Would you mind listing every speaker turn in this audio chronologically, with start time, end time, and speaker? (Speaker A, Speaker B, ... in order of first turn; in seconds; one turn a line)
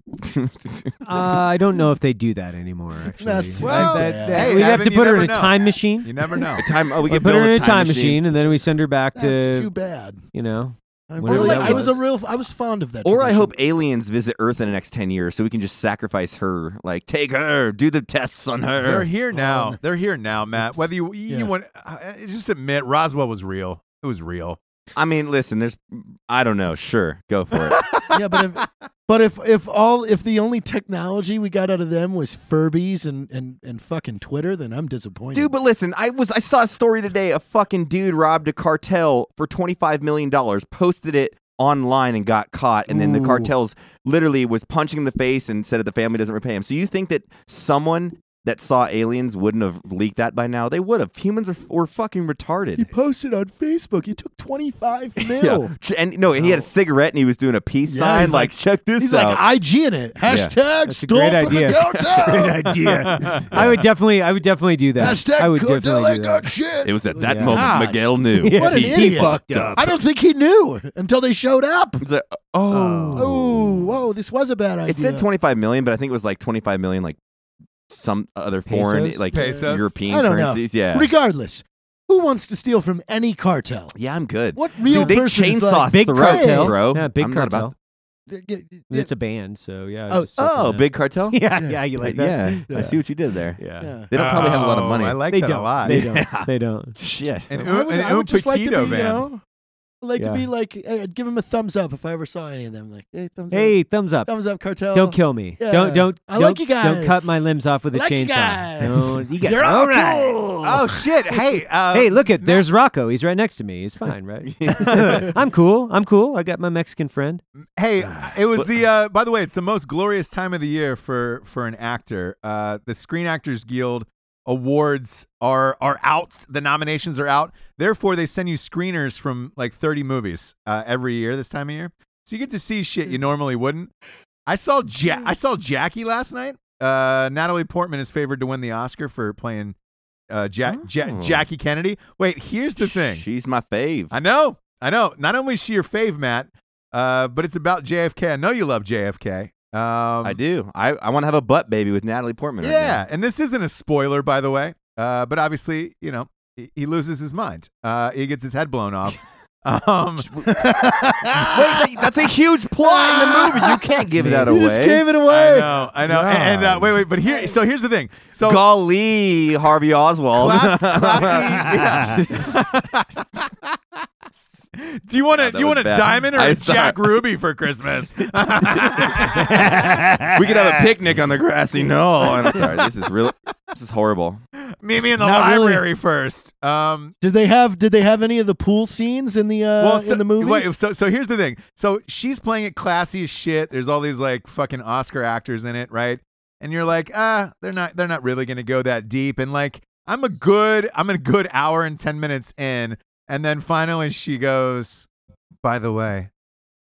Speaker A: 0.2-0.9
Speaker B: 1.0-6.1
Speaker C: 3.2-4.8
Speaker D: 3.6-6.7
Speaker A: 6.6-8.2
Speaker B: 7.0-9.7
Speaker C: 9.2-10.2
Speaker B: 10.3-12.0
Speaker C: 11.1-13.5
Speaker A: 11.2-11.9
Speaker A: 13.0-19.1
Speaker D: 18.8-24.6
Speaker C: 19.3-19.8
Speaker A: 24.9-27.9
Speaker D: 27.7-28.2
Speaker C: 28.1-35.5
Speaker A: 35.3-52.9
Speaker C: 42.9-43.5
Speaker C: 52.7-55.7
Speaker A: 55.2-59.4
Speaker C: 57.9-63.5
Speaker A: 60.2-60.5
Speaker B: 60.8-66.5
Speaker A: 61.8-62.5
Speaker D: 62.9-63.8
Speaker C: 65.0-72.0
Speaker A: 66.8-69.9
Speaker B: 67.2-67.7
Speaker D: 67.5-67.9
Speaker B: 68.4-69.9
Speaker A: 72.0-74.0
Speaker B: 72.7-73.3
Speaker C: 73.1-75.2
Speaker A: 74.9-77.2
Speaker A: 77.9-81.1
Speaker B: 78.7-79.2
Speaker D: 79.3-79.9
Speaker C: 79.4-83.9
Speaker A: 83.9-87.7
Speaker C: 84.5-86.7
Speaker B: 84.9-85.2
Speaker B: 85.8-87.7
Speaker C: 88.3-89.1
Speaker B: 88.9-93.0
Speaker A: 90.4-91.4
Speaker C: 91.6-91.8
Speaker A: 92.0-95.2
Speaker C: 92.7-93.0
Speaker B: 93.6-93.9
Speaker C: 93.8-94.1
Speaker D: 94.1-96.0
Speaker B: 95.3-97.0
Speaker A: 95.8-97.5
Speaker D: 97.5-99.3
Speaker C: 97.5-99.4
Speaker C: 100.0-111.0
Speaker B: 100.2-100.5
Speaker B: 103.5-104.3
Speaker B: 104.9-110.7
Speaker D: 110.6-112.7
Speaker B: 111.9-117.4
Speaker A: 114.5-115.2
Speaker D: 114.8-115.3
Speaker D: 117.8-133.9
Speaker D: 134.5-139.7
Speaker D: 140.3-143.2
Speaker A: 140.7-141.4
Speaker A: 142.8-144.1
Speaker D: 144.1-150.4
Speaker A: 150.2-153.0
Speaker D: 152.6-160.7
Speaker C: 160.4-162.1
Speaker A: 161.5-165.1
Speaker C: 162.8-166.7
Speaker B: 164.2-164.5
Speaker D: 165.2-168.6
Speaker A: 166.0-167.0
Speaker A: 168.4-172.6
Speaker D: 170.3-173.5
Speaker D: 174.8-179.8
Speaker A: 175.3-177.2
Speaker A: 178.3-179.6
Speaker B: 179.4-180.6
Speaker A: 180.3-184.4
Speaker D: 184.8-187.1
Speaker C: 185.2-185.9
Speaker C: 187.2-190.7
Speaker D: 189.8-205.1
Speaker D: 205.6-206.3